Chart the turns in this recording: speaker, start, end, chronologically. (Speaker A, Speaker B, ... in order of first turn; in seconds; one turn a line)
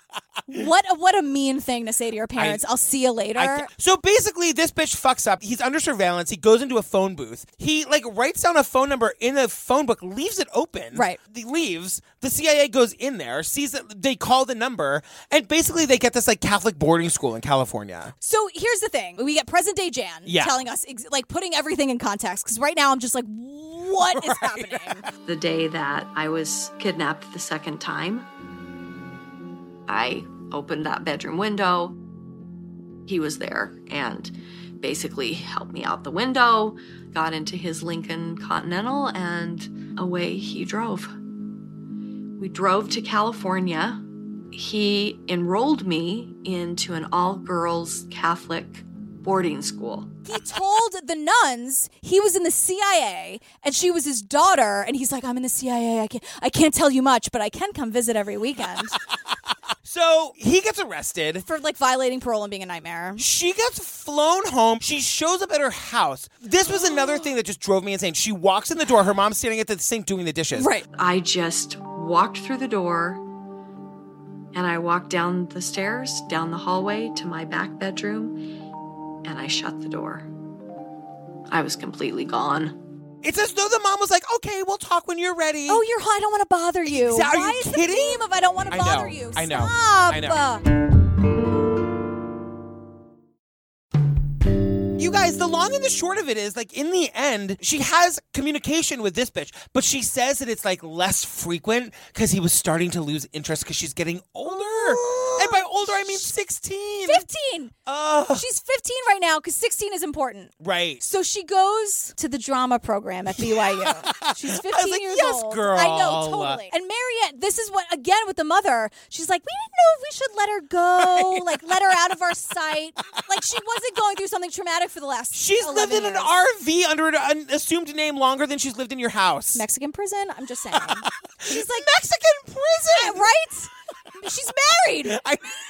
Speaker A: 0.5-3.7
Speaker B: 2.4-2.6
Speaker B: 3.4-18.1
Speaker A: 10.9-11.2
Speaker A: 18.2-25.1
Speaker B: 20.3-20.5
Speaker B: 24.0-24.9
Speaker C: 25.2-28.3
Speaker C: 29.9-31.9
Speaker C: 33.1-41.1
Speaker C: 42.4-50.1
Speaker A: 50.3-59.0
Speaker B: 59.9-61.5
Speaker A: 61.5-63.2
Speaker B: 63.2-70.7
Speaker A: 70.5-70.9
Speaker C: 70.9-73.2
Speaker C: 74.5-78.4
Speaker C: 79.2-80.3
Speaker C: 81.5-82.8
Speaker B: 83.2-85.8
Speaker A: 85.7-90.6
Speaker B: 86.9-90.4
Speaker B: 95.0-107.2
Speaker A: 104.5-106.3
Speaker A: 107.1-107.8
Speaker B: 107.9-108.5
Speaker A: 108.4-126.3
Speaker B: 110.6-111.0
Speaker B: 113.8-116.6
Speaker B: 125.3-129.6
Speaker A: 129.5-131.9
Speaker B: 131.4-133.2
Speaker A: 132.9-135.2
Speaker B: 135.1-135.6